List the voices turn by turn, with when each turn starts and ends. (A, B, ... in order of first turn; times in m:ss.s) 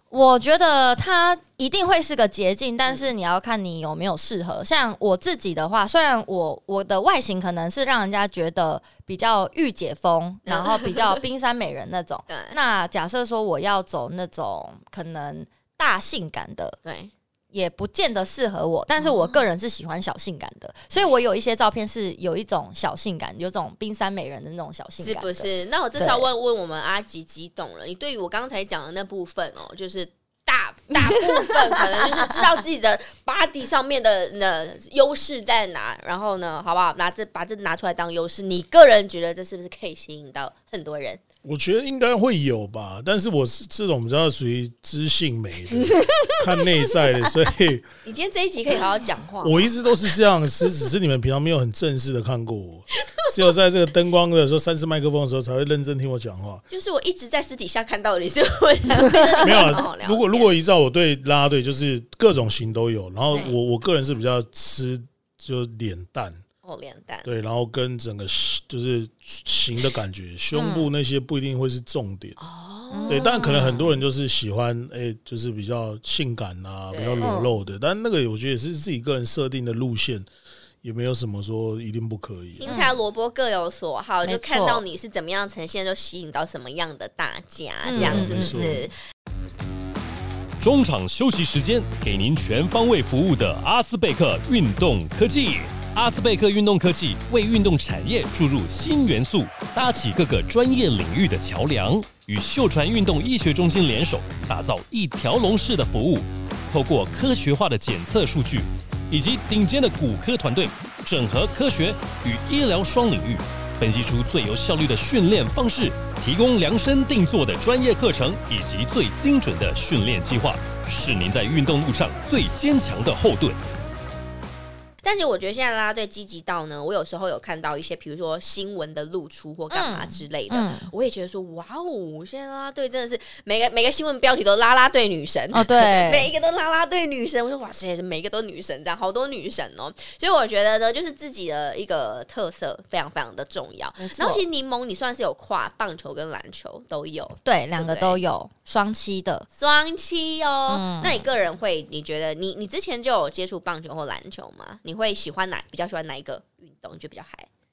0:00.1-0:16.8 A
0:10.5-0:11.2 B
0:12.3-0:12.6 B
0:16.8-0:17.1 B
0:17.5-0:26.3 A
0:19.0-0:19.4 B
0:25.0-0:41.2 B
0:31.2-0:31.7 A
0:41.4-0:47.9 C
0:48.0-0:49.7 B
0:49.4-0:56.6 C
0:53.0-0:53.3 B
0:56.7-1:00.5 B
0:59.1-0:59.7 A
0:59.4-1:06.4 C
1:06.6-1:07.3 B
1:07.2-1:12.4 C
1:10.5-1:10.9 A
1:12.4-1:13.8 B
1:12.9-1:14.0 A
1:13.1-1:20.3 C
1:16.9-1:17.4 B
1:17.2-1:17.5 A
1:20.8-1:22.6 C
1:22.6-1:28.9 B
1:22.7-1:22.9 A
1:24.2-1:24.8 A
1:27.8-1:28.8 A
1:27.9-1:28.9 C
1:30.6-2:03.6 D
2:05.0-2:28.2 B
2:09.7-2:10.9 A
2:15.5-2:16.3 A
2:24.0-2:24.4 A
2:27.4-2:29.5 A
2:29.6-2:37.5 B
2:30.7-2:31.2 A